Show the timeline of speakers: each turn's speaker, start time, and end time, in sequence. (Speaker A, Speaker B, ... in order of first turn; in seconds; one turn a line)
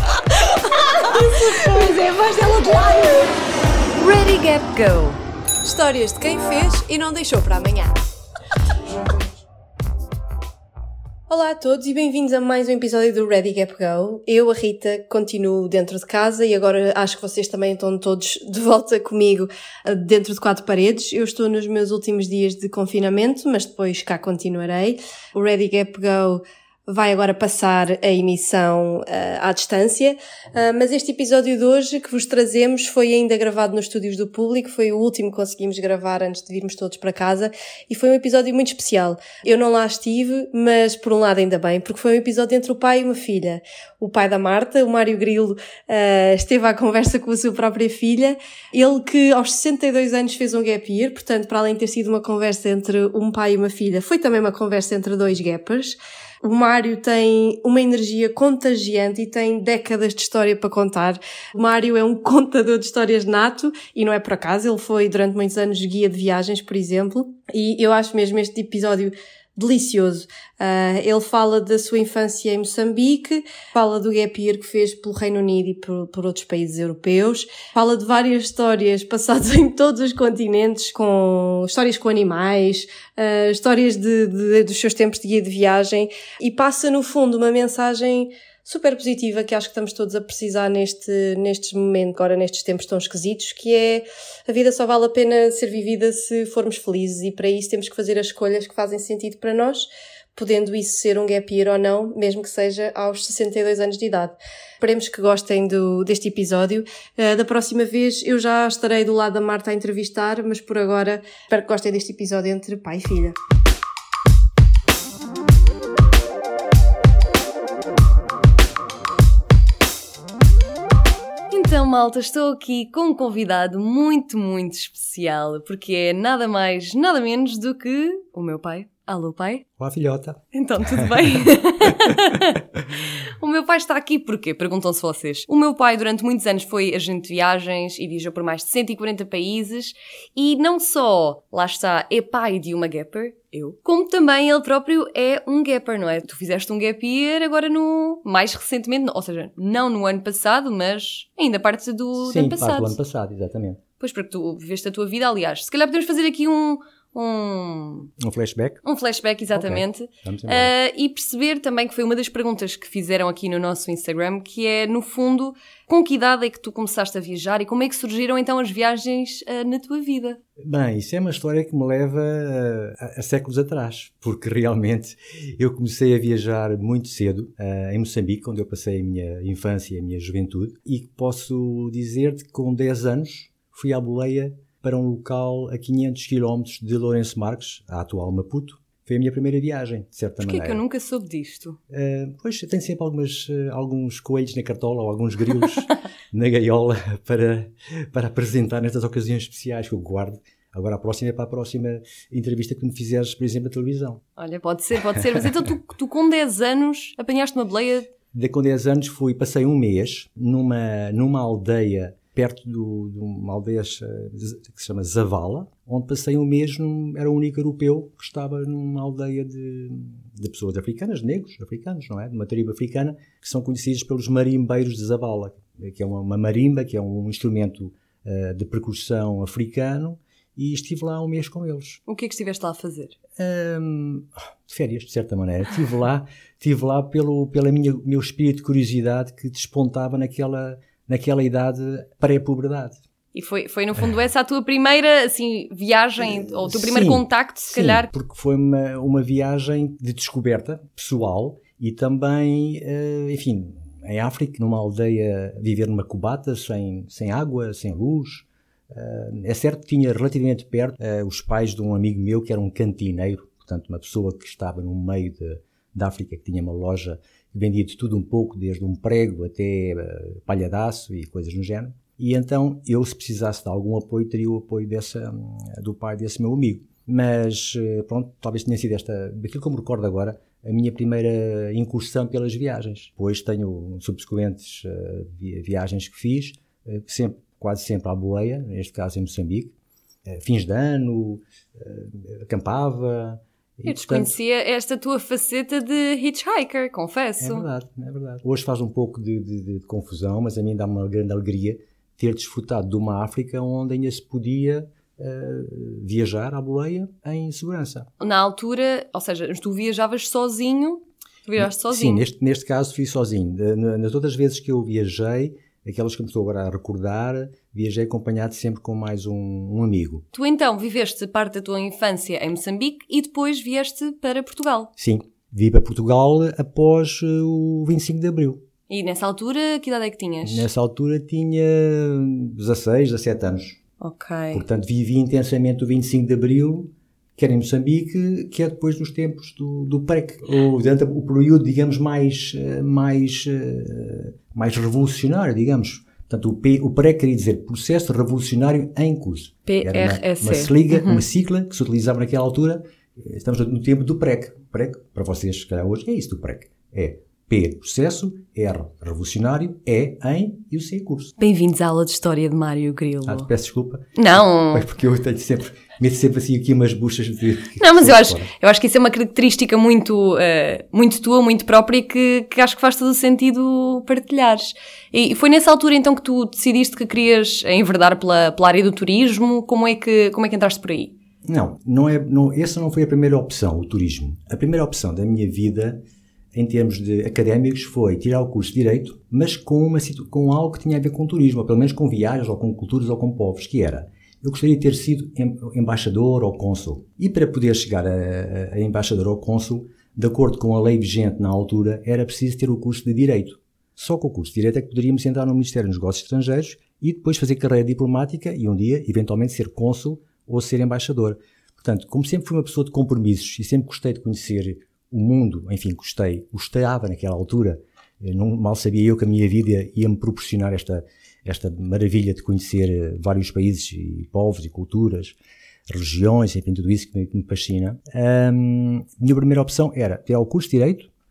Speaker A: 0.6-3.3
Speaker B: 0.7-1.1
Speaker B: 4.0-5.2
Speaker A: 5.6-7.9
Speaker A: 11.3-113.4
Speaker B: 121.5-129.7
Speaker C: 129.8-132.4
Speaker B: 130.5-132.6
Speaker B: 133.4-153.0
Speaker C: 152.2-153.8
Speaker B: 154.0-158.1
Speaker C: 158.2-158.8
Speaker B: 158.8-170.4
Speaker C: 159.5-160.7
Speaker C: 170.6-190.8
Speaker B: 190.4-191.8
Speaker C: 191.9-204.2
Speaker B: 204.4-208.1
Speaker C: 208.3-232.0
Speaker B: 232.1-233.2
Speaker C: 233.4-243.0
Speaker B: 243.3-248.1
Speaker C: 246.3-289.7
Speaker C: 290.3-294.4
Speaker B: 293.9-297.7
Speaker C: 297.4-308.1
Speaker B: 308.2-312.2
Speaker C: 311.6-320.2
Speaker B: 320.3-324.9
Speaker C: 325.0-328.6
Speaker B: 328.9-330.7
Speaker C: 330.4-333.8
Speaker B: 334.0-334.6
Speaker C: 334.5-361.3
Speaker B: 349.7-351.2
Speaker B: 361.4-363.5
Speaker C: 363.3-368.5
Speaker B: 364.2-364.9
Speaker B: 367.8-381.1
Speaker C: 381.5-386.0
Speaker C: 386.5-425.4
Speaker C: 425.9-431.1